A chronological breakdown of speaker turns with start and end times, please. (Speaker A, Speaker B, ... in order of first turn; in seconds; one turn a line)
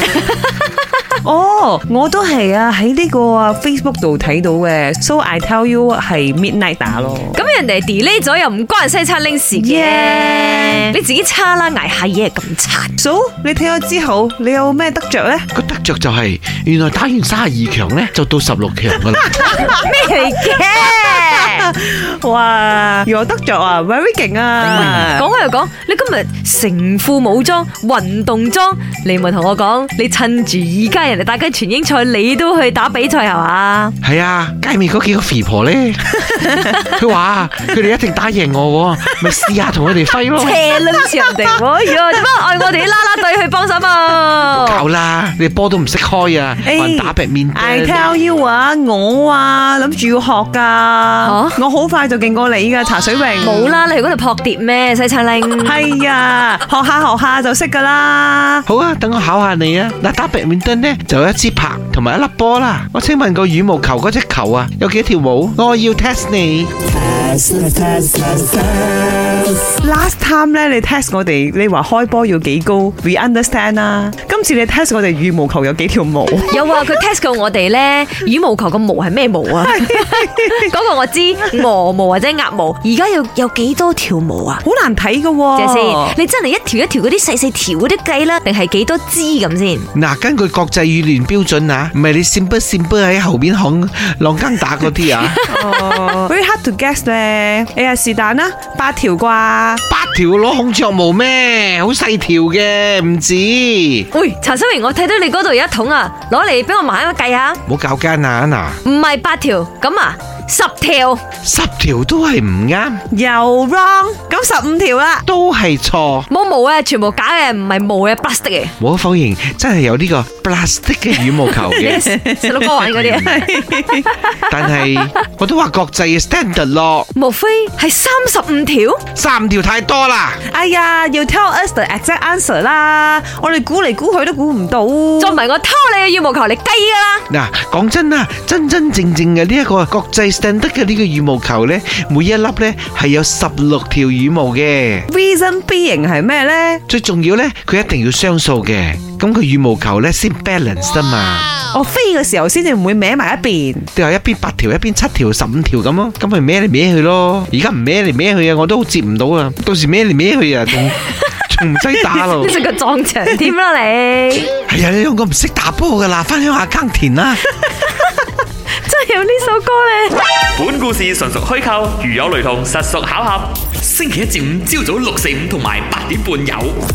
Speaker A: 1.2-7.4
Speaker B: 7.3-12.9
Speaker A: 9.5-10.9
Speaker A: 13.0-15.5
Speaker C: 15.5-19.6
Speaker B: 19.5-21.7
Speaker A: 20.7-25.3
Speaker C: 24.6-25.1
Speaker B: 24.7-33.9
Speaker C: 34.0-36.2
Speaker C: 36.8-40.6
Speaker B: 40.3-44.8
Speaker C: 44.5-48.0
Speaker A: 46.6-53.8
Speaker B: 51.2-51.6
Speaker B: 53.4-55.8
Speaker A: 55.6-58.6
Speaker C: 58.7-66.8
Speaker A: 69.8-76.8
Speaker B: 76.5-84.6
Speaker A: 79.6-80.6
Speaker A: 84.6-86.2
Speaker B: 85.5-89.9
Speaker C: 89.9-95.4
Speaker B: 95.3-96.2
Speaker A: 95.4-99.8
Speaker C: 99.9-104.1
Speaker B: 104.1-107.6
Speaker C: 107.7-108.8
Speaker B: 108.8-111.2
Speaker C: 111.4-113.0
Speaker A: 113.1-115.2
Speaker C: 115.2-116.3
Speaker B: 116.3-118.7
Speaker C: 118.8-122.0
Speaker B: 121.7-124.1
Speaker A: 121.8-124.2
Speaker C: 123.0-123.3
Speaker C: 124.4-127.1
Speaker B: 127.1-129.0
Speaker C: 129.2-130.4
Speaker A: 130.5-135.4
Speaker B: 135.2-137.2
Speaker C: 137.3-145.1
Speaker A: 145.1-146.8
Speaker C: 146.9-151.5
Speaker A: 151.7-153.9
Speaker C: 153.9-162.5
Speaker B: 162.2-164.5
Speaker C: 164.7-167.4
Speaker B: 167.9-168.1
Speaker B: 168.7-170.2
Speaker D: 170.5-176.8